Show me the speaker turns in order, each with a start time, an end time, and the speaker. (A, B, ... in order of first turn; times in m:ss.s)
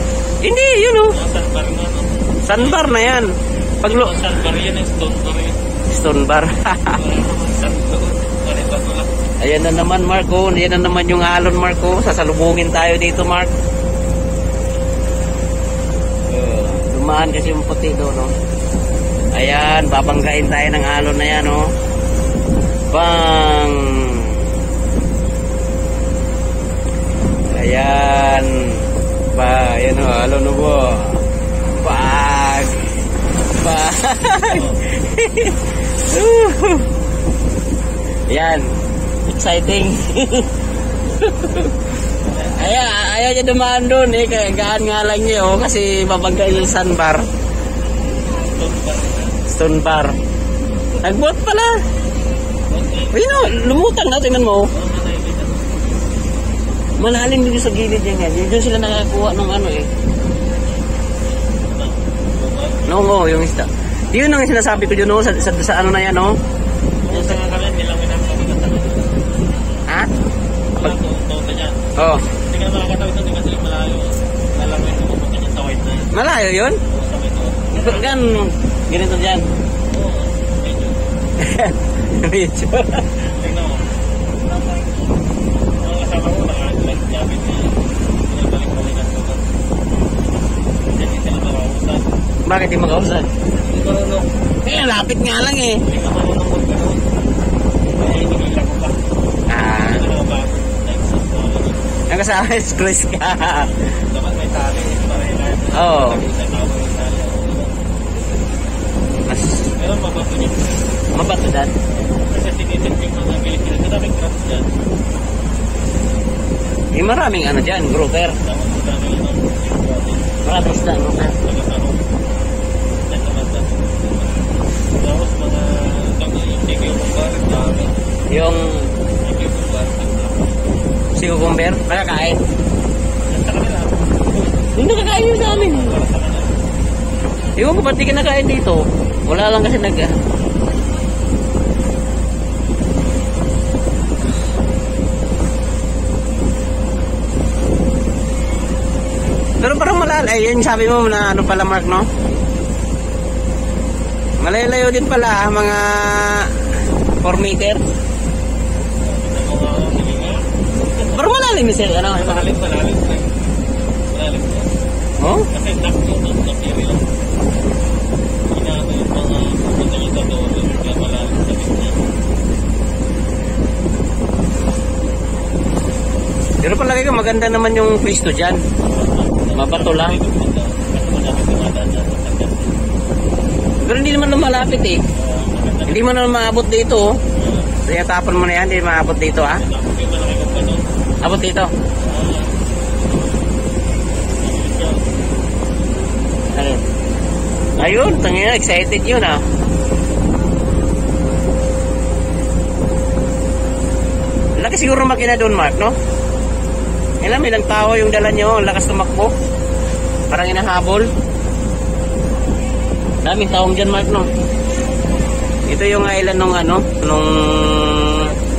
0:00.4-0:01.1 A
0:01.1-0:03.0 B
0:02.5-0:04.2 A
0:03.8-0:05.6 B
0:05.9-0:07.0 A
0:06.9-0:09.1 B
0:09.4-0:13.5 A
0:16.3-0:18.3 A
0:19.3-0:21.7 A
0:22.9-0:24.4 A
0:27.5-0:31.2 A
0:31.8-0:32.8 A
0:33.6-0:36.9 A
0:34.5-0:34.8 B
0:38.3-0:38.7 A
0:39.3-0:40.5 A
0:41.1-0:41.8 A
0:42.2-0:42.8 B
0:42.5-0:47.3 A
0:48.3-0:49.3 B
0:49.5-0:50.2 A
0:51.0-0:51.8 A
0:52.7-0:53.2 B
0:53.1-0:54.7 A
0:54.7-0:55.7 B
0:57.0-0:59.9 A
1:01.6-1:03.0 B
1:02.9-1:06.4 A
1:07.0-1:09.2 B
1:07.1-1:07.4 A
1:10.8-1:16.1 B
1:12.0-1:12.2 A
1:16.1-1:16.8 A
1:16.9-1:18.2 B
1:17.8-1:19.5 A
1:19.8-1:21.2 B
1:21.4-1:23.1 A
1:23.2-1:23.9 B
1:25.8-1:29.5 B
1:30.9-1:32.1 B
1:32.5-1:33.3 A
1:33.6-1:34.3 B
1:34.6-1:35.8 A
1:35.9-1:37.0 B
1:38.0-1:39.0 B
1:39.5-1:40.0 A
1:39.8-1:41.9 B
1:42.1-1:43.7 A
1:43.8-1:47.8 B
1:45.7-1:46.2 A
1:49.3-1:49.7 A
1:49.8-1:50.7 B
1:51.1-1:51.7 A
1:51.9-1:54.7 B
1:56.9-1:58.4 A
1:58.4-2:00.3 B
2:00.4-2:01.3 A
2:01.1-2:02.1 B
2:03.1-2:07.9 B
2:08.3-2:08.9 A
2:09.2-2:10.6 B
2:11.2-2:12.4 A
2:13.2-2:16.6 B
2:14.8-2:16.0 A
2:17.6-2:20.1 A
2:29.6-2:32.1 A
2:34.4-2:37.8 A
2:38.9-2:41.2 B
2:41.1-2:42.6 A
2:42.1-2:43.4 B
2:44.1-2:44.7 B
2:45.2-2:45.5 A
2:45.5-2:47.2 B
2:48.5-2:52.0 B
2:56.6-2:58.6 A
2:58.8-3:02.8 B
2:59.6-3:00.1 A
3:03.8-3:05.0 A
3:05.2-3:06.1 B
3:05.9-3:07.2 A
3:07.4-3:07.7 B
3:07.9-3:09.6 A
3:09.4-3:10.8 B
3:11.2-3:11.7 A
3:12.0-3:13.5 B
3:14.3-3:15.1 B
3:16.5-3:16.8 A
3:17.8-3:18.0 B
3:17.8-3:19.4 A
3:24.6-3:26.0 A
3:27.2-3:29.3 A
3:30.3-3:31.1 A
3:33.2-3:34.3 A
3:35.7-3:38.3 A